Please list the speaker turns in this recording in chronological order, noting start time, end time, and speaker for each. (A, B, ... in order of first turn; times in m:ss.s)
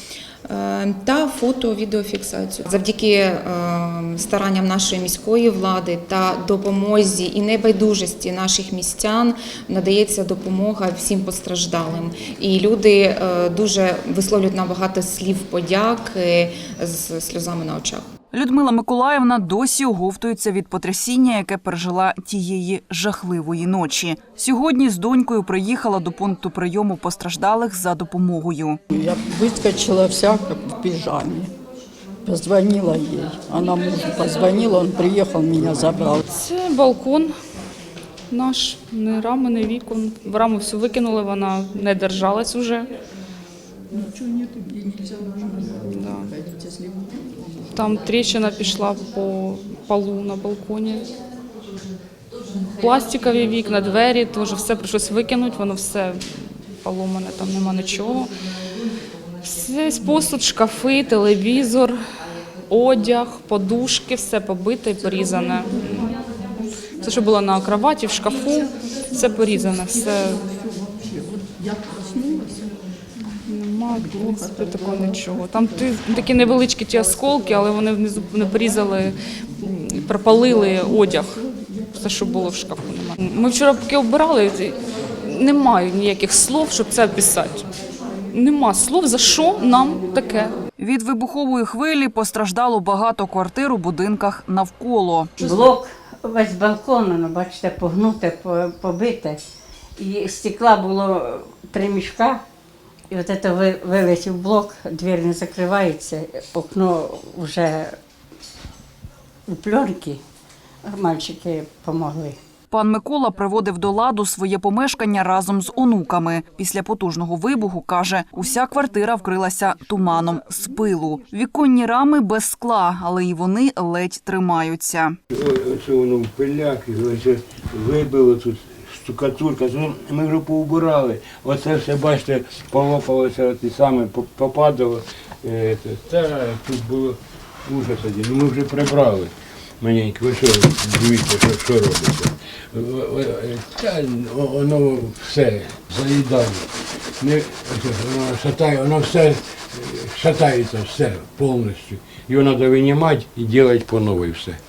0:00.5-0:18.0 A
0:18.3-0:28.8 B
0:28.9-0:31.5 C
0:32.2-0:36.2 C
0:36.3-0:37.3 D
0:38.3-0:42.9 D
0:43.9-0:45.6 C
0:45.8-0:46.3 D
0:47.7-0:51.0 D
0:52.8-0:56.2 D
0:56.8-0:58.3 D
0:59.4-1:02.0 D
1:02.7-1:06.2 D
1:07.0-1:10.4 D
1:11.1-1:12.5 C
1:13.4-1:27.7 D
1:28.3-1:30.5 D
1:30.8-1:35.5 B
1:35.4-1:39.4 E
1:40.0-1:42.4 E
1:43.1-1:48.0 E
1:49.5-1:50.2 E
1:50.9-1:52.4 E
1:52.7-2:05.2 B
2:05.3-2:26.7 F
2:27.2-2:34.6 F